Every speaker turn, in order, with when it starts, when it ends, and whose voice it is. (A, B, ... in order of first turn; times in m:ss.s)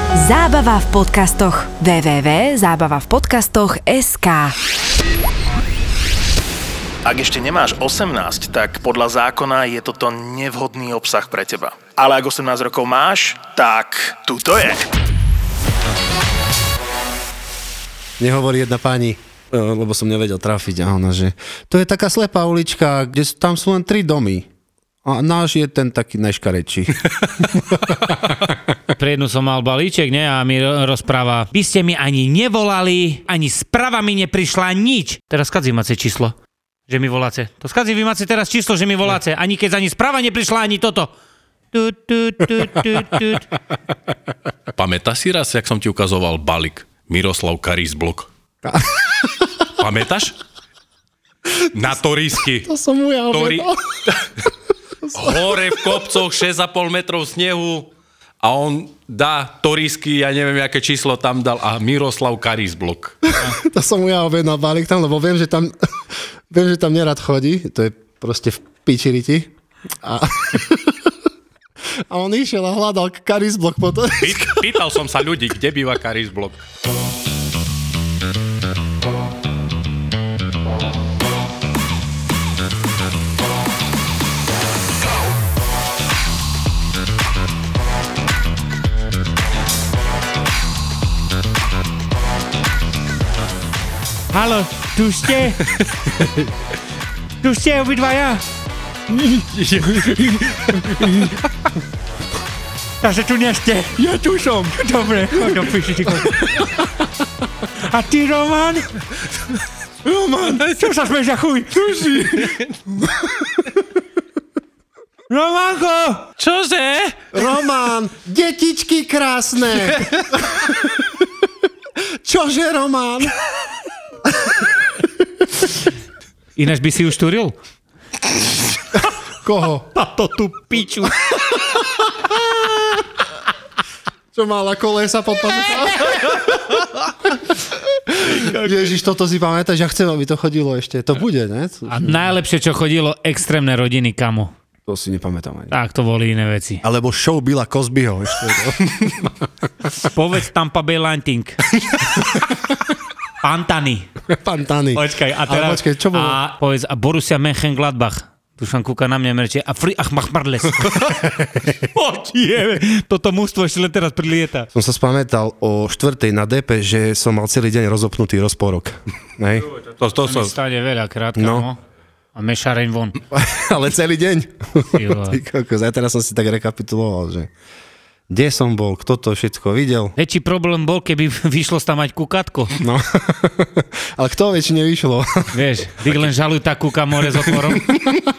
0:00.2-0:04.5 A
0:07.0-0:14.9 B
0:18.2-0:24.5 C
0:25.0-0:27.0 C
0:27.5-0:28.3 C
0:28.9-0:36.3 D
0:36.9-0:41.1 D
0:41.7-0:43.4 D
0:44.7-0:48.3 E
0:48.6-0:49.5 C
0:49.8-0:50.3 E
0:51.7-0:52.7 E
0:52.6-0:53.8 C
0:53.3-0:54.4 E
0:55.0-0:55.6 C
0:55.1-0:57.9 E
0:58.4-1:03.2 E
1:03.3-1:05.8 C
1:06.5-1:09.5 C
1:10.0-1:11.1 C
1:12.1-1:14.8 C
1:14.2-1:16.6 E
1:34.3-1:35.6 D
1:35.7-1:36.2 E
1:37.4-1:38.4 D
1:39.1-1:41.3 C
1:39.6-1:40.8 E
1:43.0-1:46.7 D
1:45.3-1:45.6 C
1:47.8-1:48.9 D
1:50.1-1:50.6 C
1:50.2-1:52.5 D
1:55.3-1:56.2 D
1:56.4-1:57.2 E
1:57.3-2:01.0 C
1:59.8-2:00.2 E
2:02.2-2:03.3 C
2:04.4-2:04.7 C
2:06.6-2:07.5 D
2:09.4-2:09.9 C
2:09.9-2:11.1 D
2:11.6-2:13.0 C
2:14.3-2:16.3 C
2:16.0-2:16.5 D
2:18.1-2:22.1 C
2:18.2-2:18.8 D
2:21.9-2:24.5 D
2:24.9-2:25.7 C
2:25.7-2:26.8 D
2:26.8-2:29.3 C
2:30.0-2:31.6 D
2:33.4-2:34.1 D
2:34.3-2:36.4 C
2:34.9-2:41.2 D
2:41.4-2:41.6 C
2:41.8-2:44.7 D
2:44.7-2:49.7 C
2:50.0-2:50.5 E
2:50.2-2:51.8 D
2:51.4-2:51.7 C
2:52.3-2:53.2 D
2:53.3-2:57.5 C
2:54.9-2:55.4 D
2:58.3-3:00.1 C
3:00.2-3:02.8 D
3:02.8-3:05.5 C
3:05.5-3:07.8 D